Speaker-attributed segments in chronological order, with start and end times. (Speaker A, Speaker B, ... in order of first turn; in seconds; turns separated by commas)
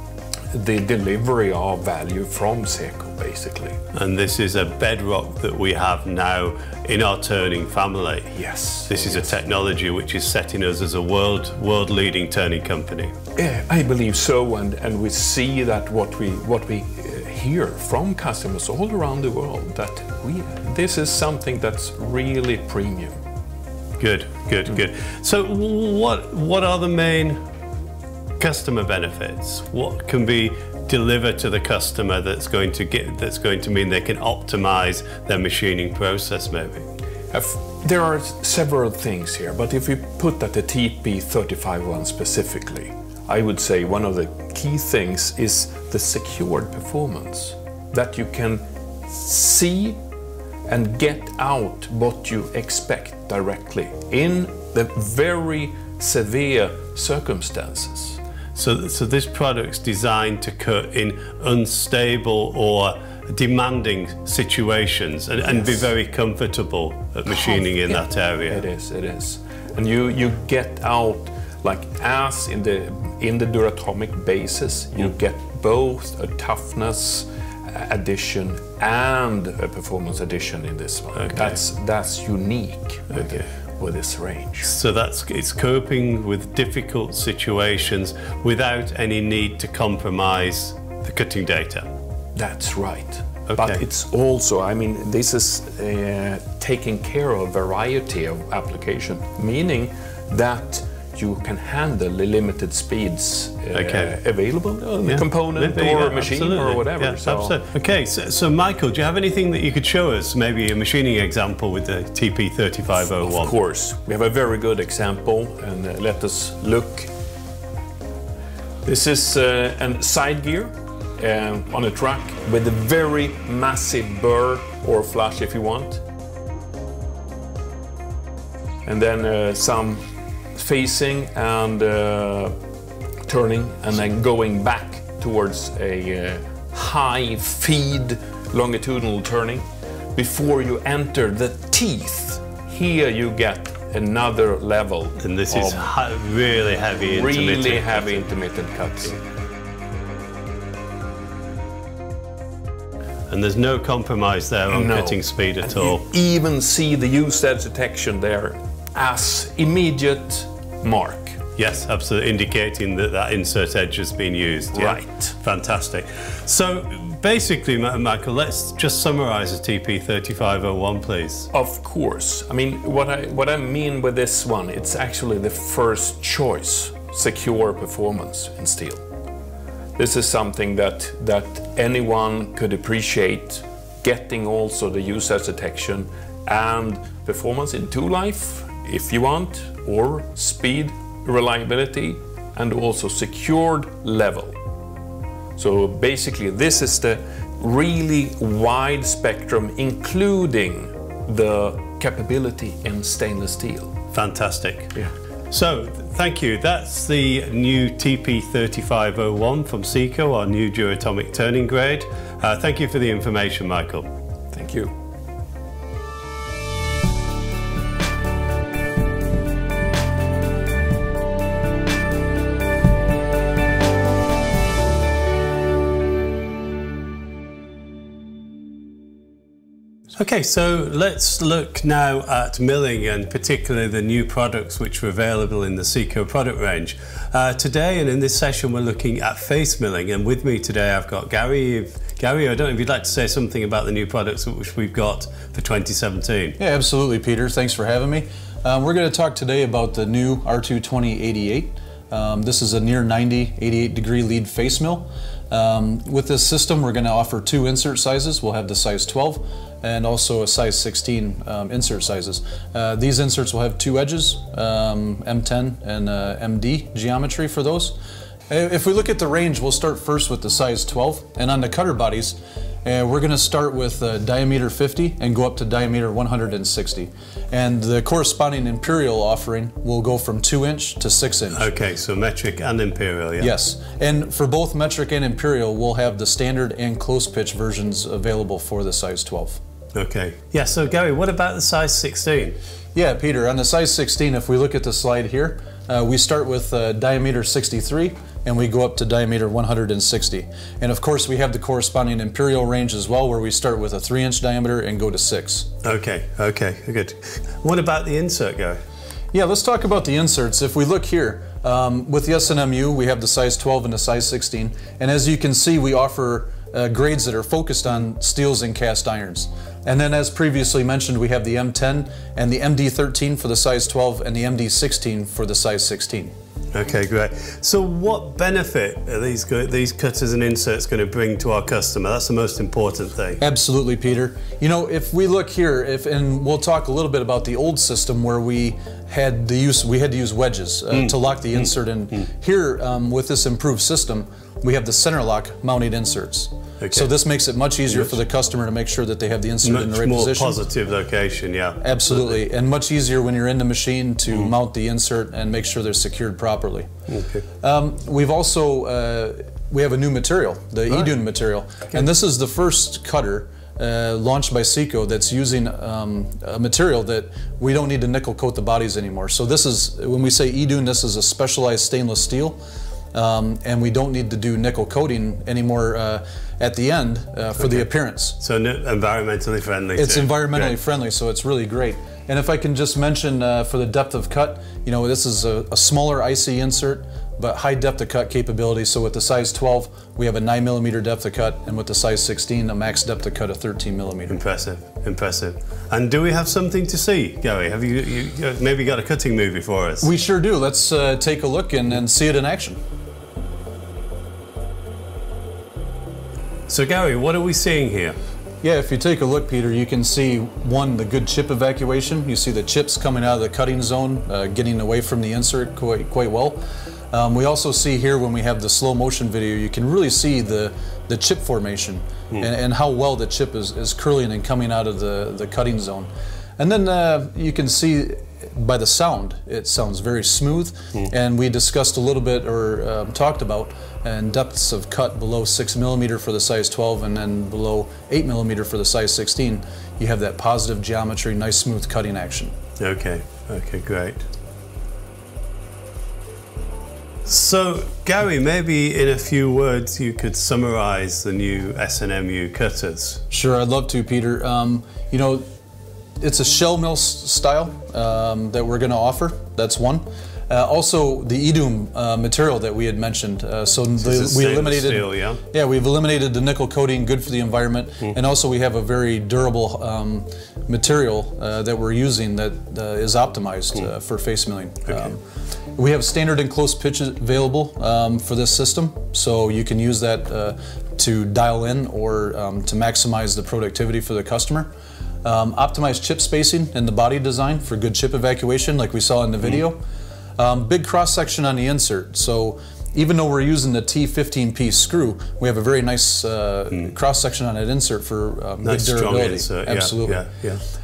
Speaker A: 0.5-3.8, Speaker B: 3.9-8.3, Speaker A: 8.3-9.3, Speaker B: 8.9-13.1, Speaker A: 13.4-23.2, Speaker B: 24.0-27.4, Speaker B: 28.4-36.9, Speaker A: 37.3-50.0, Speaker A: 50.7-58.2, Speaker B: 58.5-68.6, Speaker A: 65.5-65.9, Speaker A: 67.4-84.7, Speaker B: 81.2-81.5, Speaker B: 83.2-83.5, Speaker B: 84.7-91.9, Speaker A: 92.3-107.6, Speaker B: 93.5-93.8, Speaker B: 103.7-104.1, Speaker B: 105.0-113.5, Speaker A: 113.0-117.1, Speaker A: 118.8-126.0, Speaker A: 128.8-132.6, Speaker A: 133.3-146.0, Speaker B: 145.2-148.3, Speaker A: 146.8-149.2, Speaker B: 153.3-156.0, Speaker A: 154.7-161.4, Speaker B: 161.6-171.5, Speaker A: 164.7-165.3, Speaker A: 171.5-179.0, Speaker A: 179.9-194.6, Speaker A: 195.6-203.9, Speaker B: 204.1-204.9, Speaker B: 205.5-214.1, Speaker A: 214.5-214.9, Speaker B: 230.1-246.6, Speaker C: 246.6-268.0, Speaker C: 268.5-281.7, Speaker B: 281.5-283.5, Speaker C: 283.4-289.6, Speaker B: 289.9-292.6, Speaker C: 292.9-305.7, Speaker B: 305.8-308.8, Speaker C: 309.3-326.3, Speaker B: 326.7-333.4, Speaker C: 333.4-350.6, Speaker B: 346.8-347.1, Speaker B: 347.9-348.2, Speaker B: 349.6-352.3, Speaker C: 351.8-356.9, Speaker B: 357.1-357.4, Speaker C: 357.6-372.6, Speaker C: 373.1-378.4, Speaker B: 378.4-380.8, Speaker C: 379.9-394.4, Speaker B: 394.3-400.1, Speaker C: 400.0-402.8, Speaker B: 406.7-408.2, Speaker C: 408.6-442.6, Speaker B: 442.8-444.3, Speaker B: 447.3-453.2, Speaker C: 453.3-455.5, Speaker C: 456.2-475.2, Speaker B: 464.0-465.4, Speaker C: 475.7-489.8, Speaker C: 490.4-500.3, Speaker B: 498.6-500.6